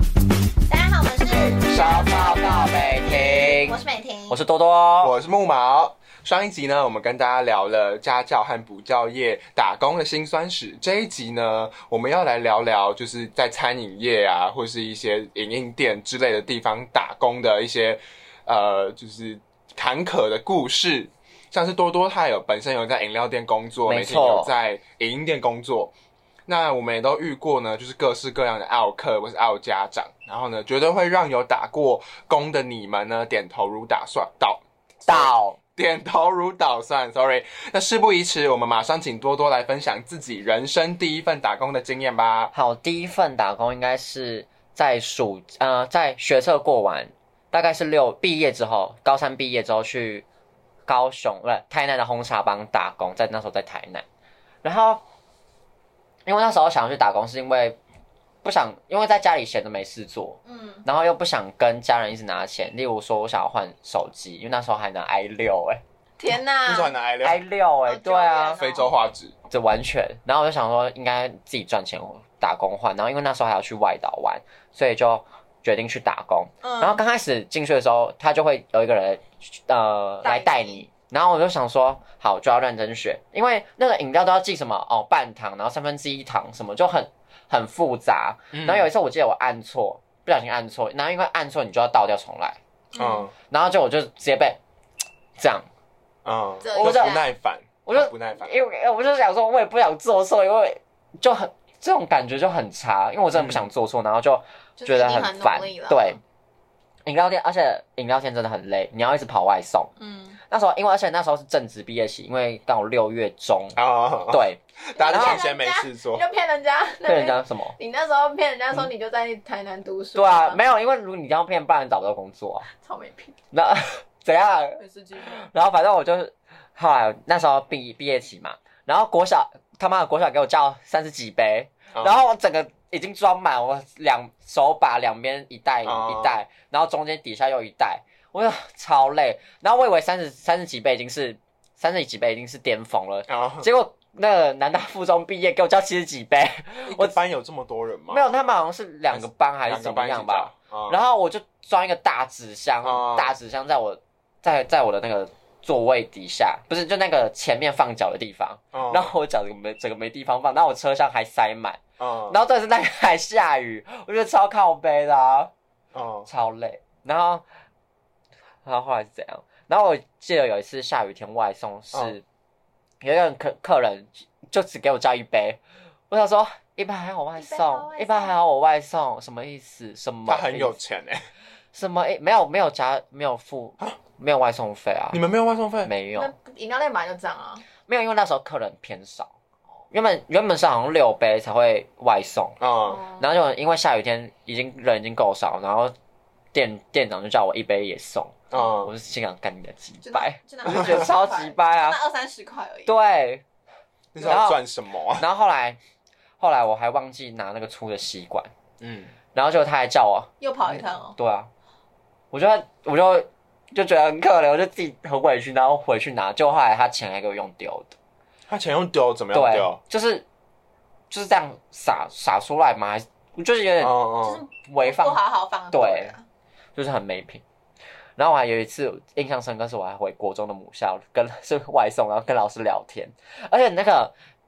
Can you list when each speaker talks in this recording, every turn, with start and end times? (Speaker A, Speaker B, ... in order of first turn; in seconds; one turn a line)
Speaker A: 0.7-4.4
Speaker B: 1.6-5.1
Speaker C: 5.0-25.9
Speaker B: 23.9-24.5
Speaker C: 26.4-42.5
Speaker B: 35.0-35.6
Speaker B: 42.5-50.2
Speaker B: 50.9-54.0
Speaker B: 54.6-55.0
Speaker B: 56.2-57.8
Speaker B: 58.4-65.8
Speaker A: 60.5-60.8
Speaker A: 66.2-66.9
Speaker C: 66.6-67.4
Speaker B: 67.2-68.6
Speaker A: 67.9-68.9
Speaker C: 68.6-69.3
Speaker B: 69.5-92.6
Speaker A: 76.6-77.0
Speaker A: 80.2-80.8
Speaker C: 88.5-88.9
Speaker A: 92.9-93.3
Speaker C: 93.0-93.3
Speaker B: 93.5-94.6
Speaker B: 95.4-95.7
Speaker C: 96.2-98.5
Speaker A: 96.6-97.3
Speaker B: 96.8-97.2
Speaker B: 97.8-106.2
Speaker C: 103.3-103.6
Speaker A: 104.8-106.2
Speaker B: 107.0-109.9
Speaker A: 110.0-110.4
Speaker B: 110.5-115.4
Speaker C: 113.8-116.2
Speaker A: 115.0-120.6
Speaker B: 117.0-117.7
Speaker B: 120.1-122.7
Speaker A: 122.7-123.3
Speaker B: 123.5-147.2
Speaker A: 124.8-125.4
Speaker C: 131.9-132.2
Speaker C: 135.8-136.3
Speaker C: 143.3-143.7
Speaker C: 146.9-148.3
Speaker B: 148.1-165.5
Speaker C: 149.1-151.0
Speaker C: 152.8-153.3
Speaker C: 158.7-159.1
Speaker C: 162.0-162.4
Speaker C: 165.9-166.3
Speaker B: 166.3-167.4
Speaker B: 168.6-172.2
Speaker B: 173.0-175.6
Speaker B: 176.1-180.8
Speaker A: 177.4-178.4
Speaker C: 180.3-181.3
Speaker B: 181.7-185.2
Speaker C: 185.1-185.9
Speaker B: 185.8-186.3
Speaker A: 186.1-187.6
Speaker B: 187.9-189.3
Speaker B: 189.9-192.6
Speaker C: 192.6-193.0
Speaker A: 192.8-193.3
Speaker B: 193.2-195.9
Speaker B: 196.5-202.0
Speaker C: 198.5-198.9
Speaker A: 200.0-202.9
Speaker C: 200.7-201.1
Speaker B: 202.8-203.4
Speaker C: 204.1-205.2
Speaker B: 204.2-204.6
Speaker B: 205.2-205.8
Speaker B: 206.4-208.5
Speaker C: 208.8-209.1
Speaker B: 209.3-211.5
Speaker A: 210.4-211.2
Speaker B: 212.3-217.9
Speaker C: 218.5-219.8
Speaker B: 219.3-220.2
Speaker B: 221.1-224.1
Speaker C: 223.8-224.4
Speaker A: 224.2-226.2
Speaker B: 224.6-225.2
Speaker B: 225.7-226.1
Speaker B: 226.8-227.4
Speaker B: 228.2-234.1